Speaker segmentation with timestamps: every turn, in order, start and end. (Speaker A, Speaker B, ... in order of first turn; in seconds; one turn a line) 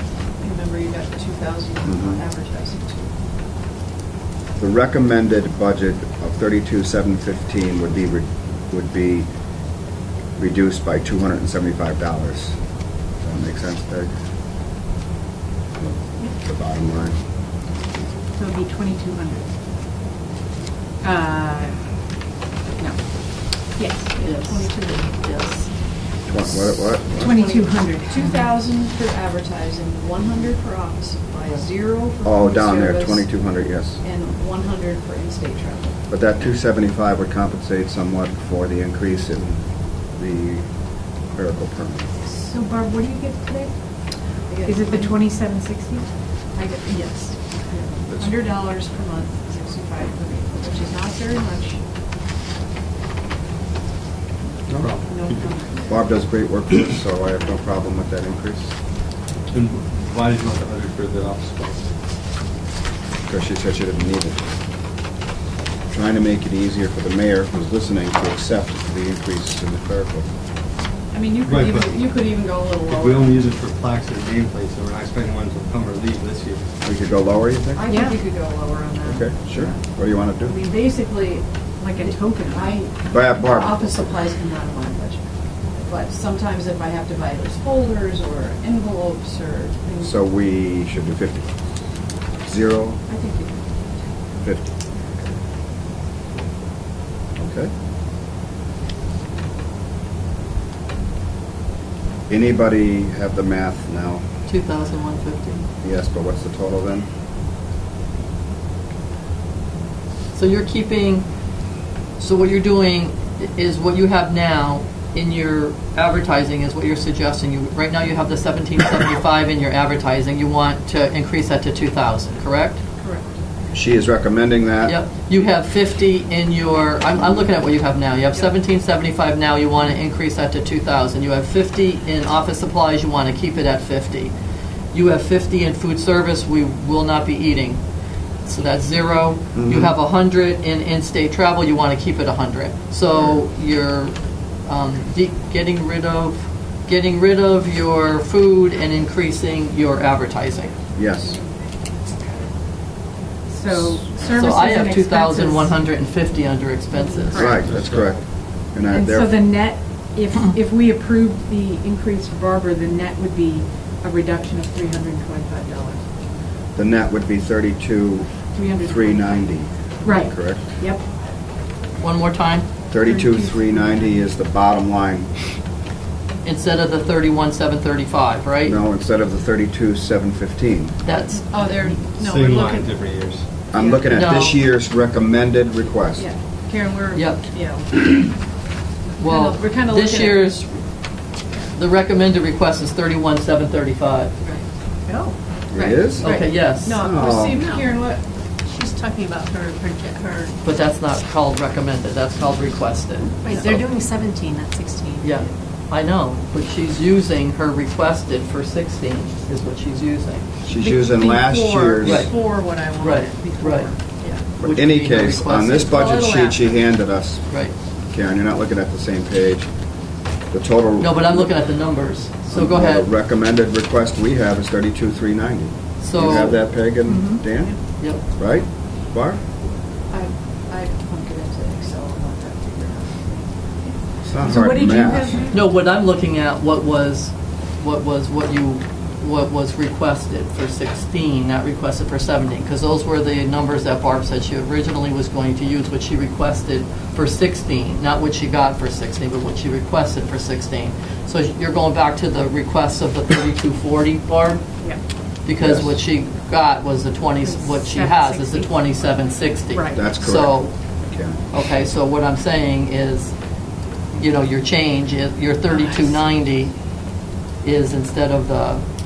Speaker A: 0.4-3.1
Speaker B: 1.9-2.2
Speaker B: 4.6-9.3
Speaker B: 10.4-12.6
Speaker B: 13.2-14.1
Speaker B: 15.8-17.2
Speaker C: 18.3-19.5
Speaker C: 21.0-21.9
Speaker C: 22.8-23.1
Speaker C: 23.7-24.2
Speaker D: 24.2-25.8
Speaker A: 24.2-25.1
Speaker B: 26.3-27.4
Speaker A: 27.1-33.3
Speaker C: 27.2-28.3
Speaker B: 32.2-34.0
Speaker A: 34.0-36.0
Speaker B: 36.1-40.7
Speaker B: 41.2-42.1
Speaker C: 42.4-43.8
Speaker A: 44.5-45.3
Speaker C: 44.6-46.1
Speaker A: 46.5-51.8
Speaker B: 48.1-48.4
Speaker B: 54.7-58.7
Speaker E: 54.7-55.4
Speaker A: 55.1-56.0
Speaker E: 59.5-61.9
Speaker B: 63.3-64.4
Speaker B: 65.9-70.3
Speaker A: 71.1-73.4
Speaker E: 71.4-76.7
Speaker B: 76.8-77.9
Speaker A: 77.7-79.9
Speaker B: 79.0-80.6
Speaker A: 80.4-90.1
Speaker C: 81.9-82.7
Speaker B: 83.0-83.9
Speaker B: 90.0-91.5
Speaker B: 92.4-93.0
Speaker A: 93.1-94.1
Speaker B: 94.4-94.7
Speaker B: 97.4-97.7
Speaker B: 102.3-104.2
Speaker D: 104.5-105.7
Speaker B: 105.8-107.1
Speaker D: 110.3-111.3
Speaker D: 112.2-122.8
Speaker A: 123.0-123.4
Speaker B: 123.7-125.0
Speaker D: 124.8-134.3
Speaker D: 134.9-137.8
Speaker D: 138.4-150.7
Speaker B: 139.6-139.9
Speaker B: 143.1-143.4
Speaker B: 151.0-151.4
Speaker C: 153.5-155.5
Speaker D: 154.3-157.6
Speaker F: 157.1-157.7
Speaker B: 157.3-159.4
Speaker E: 157.5-158.2
Speaker C: 158.9-166.1
Speaker B: 166.8-170.7
Speaker C: 168.6-169.4
Speaker C: 170.0-171.0
Speaker D: 172.0-172.7
Speaker B: 172.9-175.3
Speaker C: 173.1-173.6
Speaker D: 176.4-178.8
Speaker B: 178.7-180.9
Speaker D: 181.0-181.5
Speaker A: 181.3-182.9
Speaker E: 182.1-183.5
Speaker B: 183.7-186.3
Speaker A: 183.7-184.0
Speaker D: 184.1-184.6
Speaker A: 186.2-188.3
Speaker D: 187.1-188.1
Speaker A: 189.2-190.5
Speaker D: 189.2-190.8
Speaker D: 191.7-194.3
Speaker B: 195.7-197.6
Speaker A: 195.7-198.2
Speaker D: 196.2-197.1
Speaker A: 199.6-200.5
Speaker D: 200.6-203.9
Speaker F: 203.5-205.2
Speaker D: 205.2-210.4
Speaker B: 210.7-212.3
Speaker A: 210.8-214.4
Speaker D: 212.0-213.9
Speaker D: 214.6-216.0
Speaker B: 214.6-217.4
Speaker A: 215.9-216.8
Speaker D: 217.5-217.7
Speaker B: 218.1-219.7
Speaker B: 220.5-221.5
Speaker D: 221.0-223.1
Speaker B: 222.5-229.4
Speaker D: 226.0-226.7
Speaker A: 230.1-235.5
Speaker B: 234.3-235.4
Speaker C: 234.5-235.4
Speaker D: 235.5-254.8
Speaker D: 255.4-260.8
Speaker B: 255.6-256.0
Speaker C: 257.5-258.6
Speaker C: 259.7-260.0
Speaker B: 259.9-261.4
Speaker D: 261.5-263.4
Speaker D: 264.1-266.7
Speaker D: 267.6-268.8